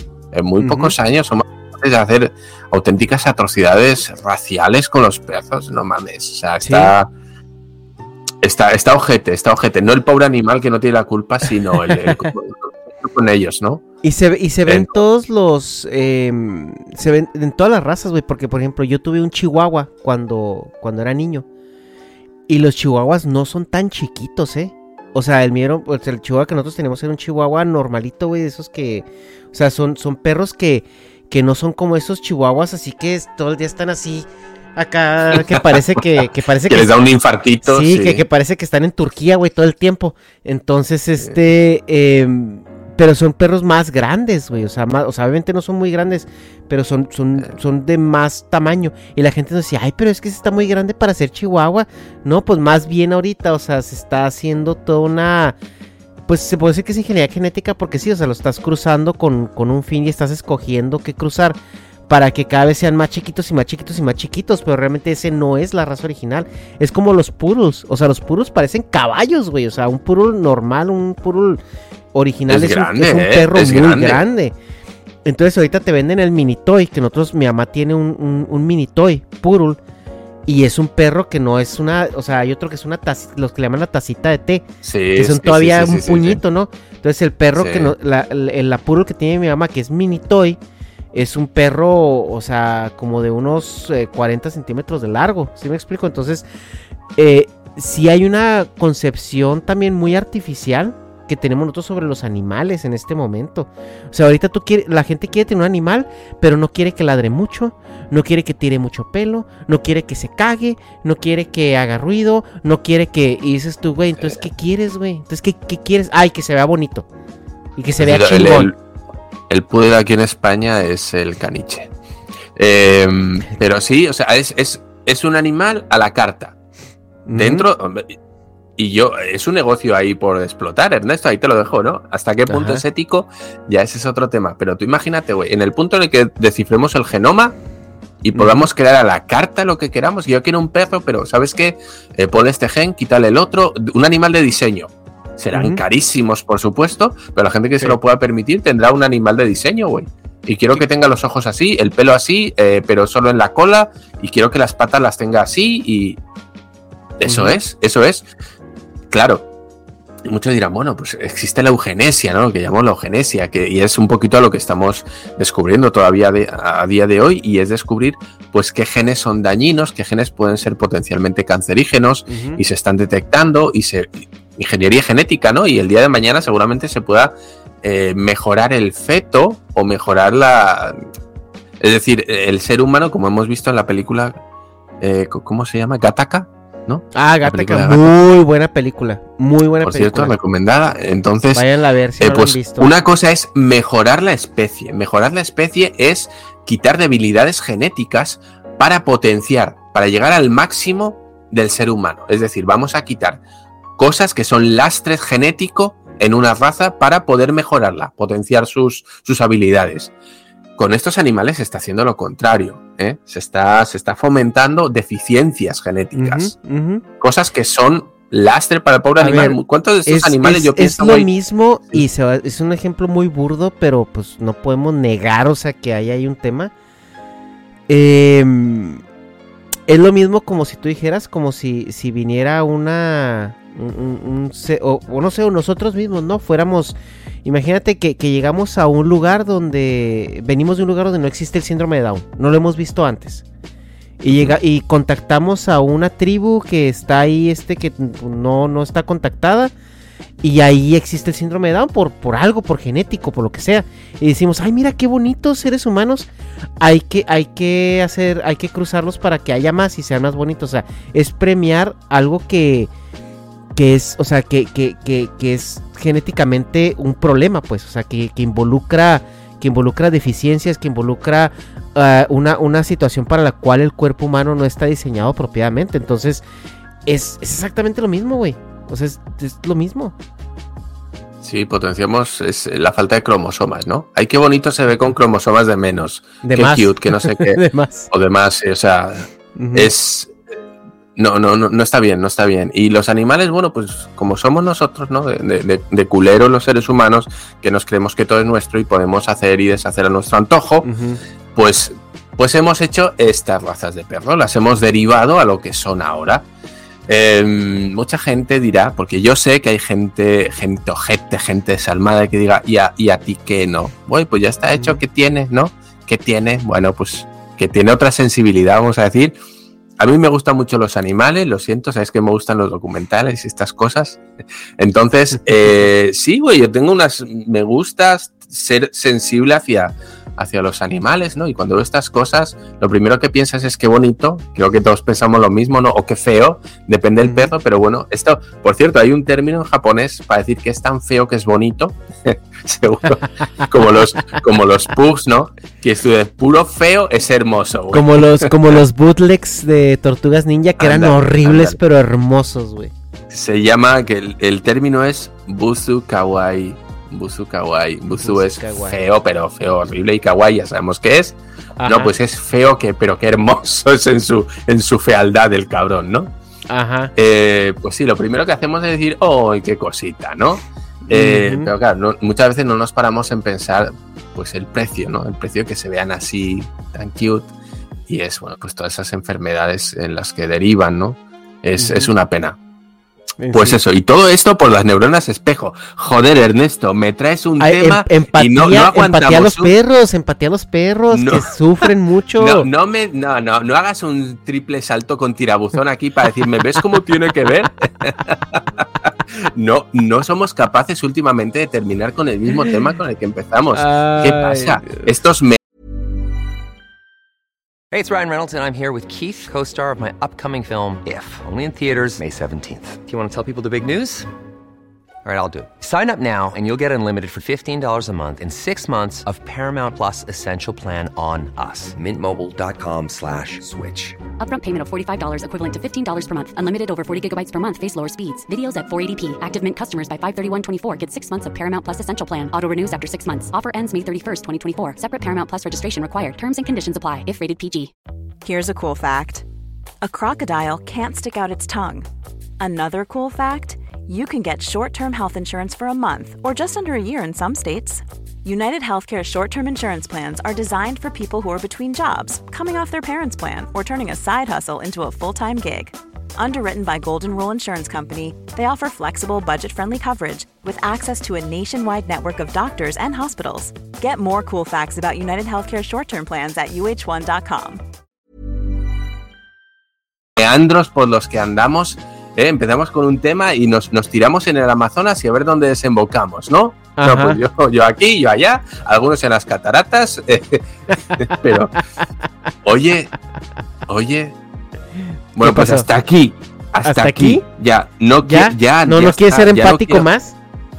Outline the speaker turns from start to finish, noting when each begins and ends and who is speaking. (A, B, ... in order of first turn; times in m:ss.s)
0:00.3-0:07.1 A
0:00.6-0:00.9 B
0:06.6-0:06.9 B
0:08.4-0:13.8 A
0:11.9-0:12.3 B
0:14.0-0:21.4 B
0:14.7-0:15.0 A
0:22.5-0:37.0 B
0:35.3-0:38.2 A
0:37.6-0:55.6 B
0:56.3-1:01.6 B
1:02.1-1:11.6 B
1:12.1-1:14.5 B
1:12.5-1:14.2 A
1:15.2-1:19.8 B
1:20.5-1:30.6 B
1:24.8-1:26.4 A
1:27.5-1:27.9 A
1:31.1-1:36.4 B
1:37.2-1:57.0 B
1:57.8-1:58.7 B
1:58.0-1:58.8 A
1:59.5-2:01.9 A
2:02.6-2:06.6 A
2:07.2-2:07.6 B
2:07.3-2:08.2 A
2:08.8-2:17.6 A
2:12.5-2:12.8 B
2:18.2-2:36.2 A
2:18.3-2:18.7 B
2:25.5-2:25.8 B
2:37.2-2:38.2 A
2:37.2-2:37.6 B
2:39.1-2:39.5 A
2:40.2-3:01.0 A
2:52.3-2:52.6 B
3:01.8-3:04.4 A
3:05.0-3:08.1 A
3:07.1-3:10.3 B
3:09.8-3:11.6 A
3:11.5-3:12.9 B
3:12.2-3:23.4 A
3:24.0-3:30.1 A
3:30.8-3:36.5 A
3:36.1-3:37.0 B
3:37.2-3:41.3 A
3:39.2-3:46.7 B
3:47.9-3:49.0 B
3:49.9-4:03.4 B
4:04.2-4:09.7 B
4:10.4-4:16.3 B
4:16.8-4:22.9 B
4:23.8-4:36.4 B
4:37.0-4:40.2 B
4:41.4-4:50.4 A
4:46.4-4:48.1 B
4:49.6-4:49.9 B
4:51.2-5:00.9 A
5:00.8-5:01.2 B
5:01.5-5:06.4 A
5:07.1-5:19.4 A
5:14.7-5:15.0 B
5:20.0-5:24.2 A
5:24.8-5:48.7 A
5:37.2-5:37.5 B
5:43.2-5:43.7 B
5:47.9-5:52.9 B
5:50.8-5:51.8 A
5:53.3-6:06.3 A
5:58.2-5:59.0 B
6:01.8-6:02.2 B
6:06.7-6:07.1 B
6:07.1-6:17.5 A
6:11.1-6:11.7 B
6:18.1-6:22.6 A
6:21.8-6:22.1 B
6:23.4-6:23.8 B
6:23.5-6:29.7 A
6:27.6-6:32.7 B
6:31.1-6:31.5 A
6:32.4-6:45.6 A
6:43.7-6:45.0 B
6:47.9-6:54.3 C
6:55.2-7:04.2 C
7:04.4-7:17.9 D
7:18.4-7:19.4 E
7:20.0-7:22.1 E
7:22.6-7:47.8 E
7:50.4-8:00.6 A
7:57.0-7:57.4 B
8:01.2-8:01.7 A
8:02.6-8:03.1 A
8:03.9-8:04.4 A
8:05.3-8:10.1 A
8:05.4-8:05.9 B
8:06.8-8:07.4 B
8:08.2-8:10.3 B